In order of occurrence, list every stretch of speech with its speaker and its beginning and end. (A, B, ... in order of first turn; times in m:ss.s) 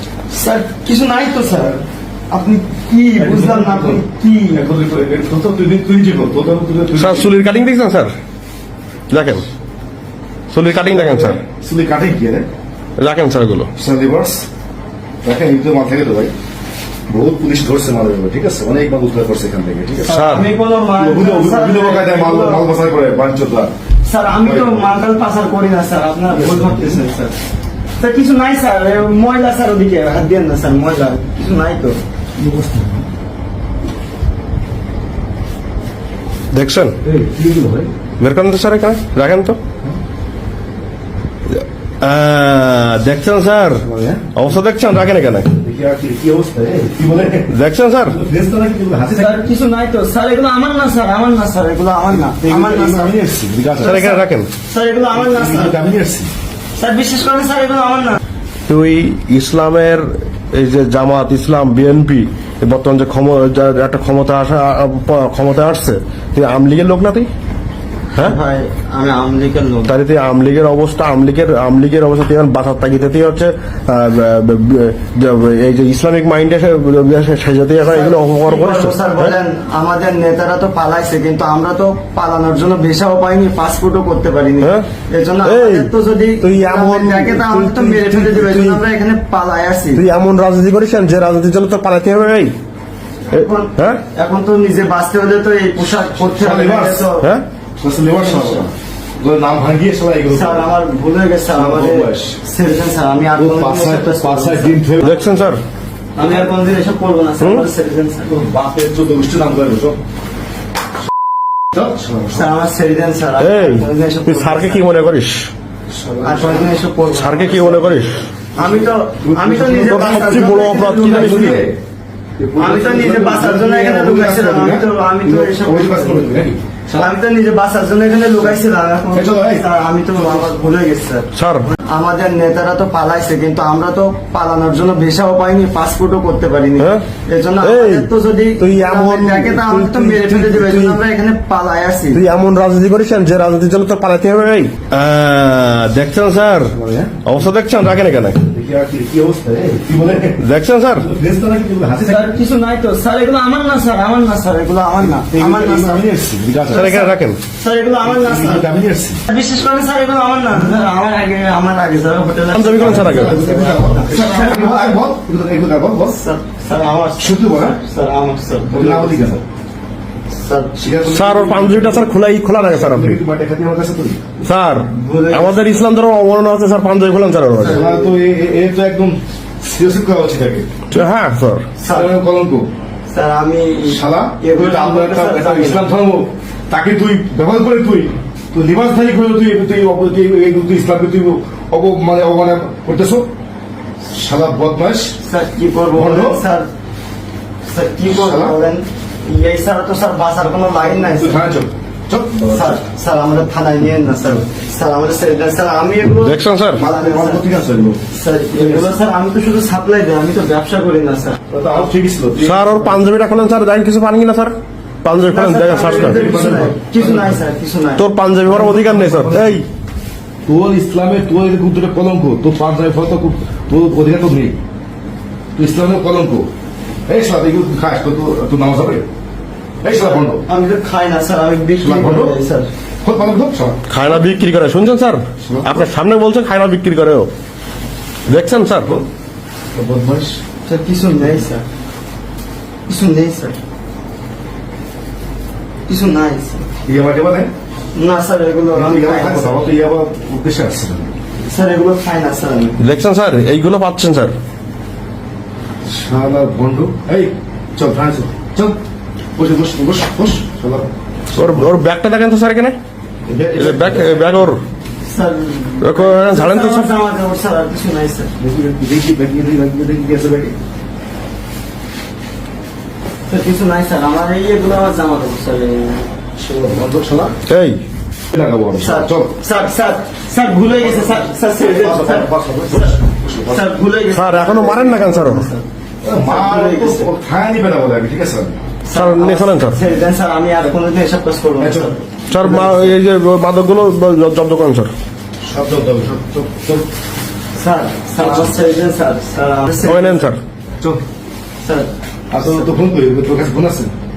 0:00.3-0:04.7 A
0:03.2-0:07.3 B
0:06.9-0:08.1 C
0:09.1-0:09.4 C
0:10.5-0:11.4 C
0:10.7-0:12.5 B
0:13.0-0:13.7 C
0:13.8-0:14.5 B
0:15.2-0:16.3 B
0:17.1-0:20.2 B
0:20.0-0:22.7 A
0:20.1-0:20.5 C
0:20.9-0:23.7 B
0:24.0-0:27.3 A
0:24.4-0:24.9 B
0:26.3-0:27.0 B
0:28.0-0:32.0 A
0:32.4-0:33.1 B
0:36.5-0:37.0 C
0:37.0-0:37.9 B
0:38.2-0:39.6 C
0:41.5-0:45.6 C
0:43.8-0:44.3 B
0:45.6-0:47.5 B
0:47.5-0:48.2 C
0:48.0-0:49.4 B
0:49.1-0:53.1 A
0:52.3-0:54.1 B
0:53.8-0:54.5 C
0:53.8-0:55.8 A
0:55.1-0:56.3 B
0:56.8-0:58.2 A
0:58.7-1:07.3 C
1:08.2-1:09.9 A
1:09.9-1:19.3 C
1:17.8-1:30.0 A
1:24.6-1:24.9 C
1:25.4-1:25.9 C
1:26.4-1:28.8 C
1:30.0-1:32.5 C
1:33.3-1:37.3 A
1:33.3-1:34.0 C
1:36.2-1:37.1 B
1:37.2-1:37.4 C
1:37.8-1:40.7 B
1:38.1-1:38.7 A
1:40.3-1:44.8 A
1:41.5-1:42.4 B
1:43.4-1:45.5 B
1:45.0-1:45.6 C
1:46.2-1:48.4 A
1:47.4-1:47.6 C
1:48.3-1:50.0 B
1:51.7-1:52.5 B
1:52.3-1:54.9 A
1:53.4-1:55.5 C
1:55.9-1:56.7 B
1:56.2-2:01.6 A
1:57.1-1:58.2 C
1:58.6-2:00.1 B
1:59.8-2:01.6 C
2:01.0-2:01.8 B
2:02.4-2:07.1 B
2:02.6-2:06.4 A
2:06.9-2:22.2 A
2:09.1-2:10.5 B
2:11.3-2:11.6 C
2:16.8-2:17.0 C
2:17.6-2:21.0 C
2:22.1-2:26.7 C
2:26.7-2:27.2 B
2:27.2-2:28.4 C
2:28.5-2:30.4 B
2:30.4-2:31.1 C
2:31.0-2:32.3 B
2:32.0-2:36.0 A
2:35.2-2:37.0 B
2:36.7-2:37.4 C
2:36.7-2:38.7 A
2:38.0-2:39.2 B
2:39.2-2:45.0 A
2:42.5-2:43.4 C
2:42.8-2:46.2 B
2:46.1-2:49.3 A
2:47.2-2:47.8 B
2:48.7-2:49.4 B
2:50.4-2:50.7 A
2:50.8-2:52.1 B
2:51.1-2:53.2 C
2:52.7-2:54.2 B
2:54.4-2:57.8 C
2:54.8-2:55.8 A
2:57.6-2:58.1 A
2:57.6-3:00.7 B
3:00.9-3:01.6 C
3:01.8-3:02.1 A
3:01.9-3:02.7 B
3:03.1-3:05.9 A
3:03.9-3:13.3 B
3:14.1-3:15.2 B
3:15.2-3:16.7 A
3:15.9-3:16.4 B
3:17.6-3:21.4 A
3:18.1-3:18.6 B
3:20.8-3:22.8 B
3:22.5-3:27.5 A
3:26.2-3:26.8 C
3:26.8-3:28.0 B
3:28.1-3:31.4 A
3:28.5-3:28.9 B
3:31.5-3:33.0 B
3:32.4-3:36.6 C
3:35.3-3:38.1 A
3:35.8-3:37.4 B
3:38.0-3:39.6 C
3:38.4-3:39.6 B
3:40.4-3:44.6 B
3:45.6-3:46.5 B
3:47.1-3:49.1 B
3:49.8-3:50.4 B
3:49.9-3:52.7 A
3:51.8-3:52.4 B
3:53.0-3:53.8 B
3:53.9-3:57.3 C
3:55.4-3:55.9 B
3:58.3-3:59.0 C
3:59.8-4:00.4 B
4:00.6-4:01.6 A
4:02.9-4:03.6 A
4:05.9-4:06.6 A
4:06.8-4:07.5 B
4:07.9-4:09.6 A
4:08.7-4:11.1 B
4:11.4-4:12.8 A
4:12.8-4:14.3 C
4:15.8-4:18.8 B
4:19.4-4:21.8 B
4:21.4-4:22.8 C
4:23.3-4:24.6 B
4:23.5-4:24.6 C
4:25.1-4:28.3 A
4:25.8-4:26.9 C
4:28.4-4:30.5 B
4:33.3-4:36.1 A
4:36.4-4:37.4 B
4:37.5-4:37.8 C
4:38.3-4:39.3 B
4:38.7-4:43.0 A
4:40.8-4:43.7 B
4:43.5-4:47.1 A
4:44.1-4:45.4 C
4:46.0-4:48.6 B
4:48.8-4:52.9 A
4:48.9-4:49.8 C
4:51.6-4:51.9 B
4:52.3-4:54.9 C
4:55.4-4:56.8 B
4:57.5-5:00.3 A
4:59.8-5:00.4 C
5:01.6-5:02.7 A
5:02.3-5:03.9 B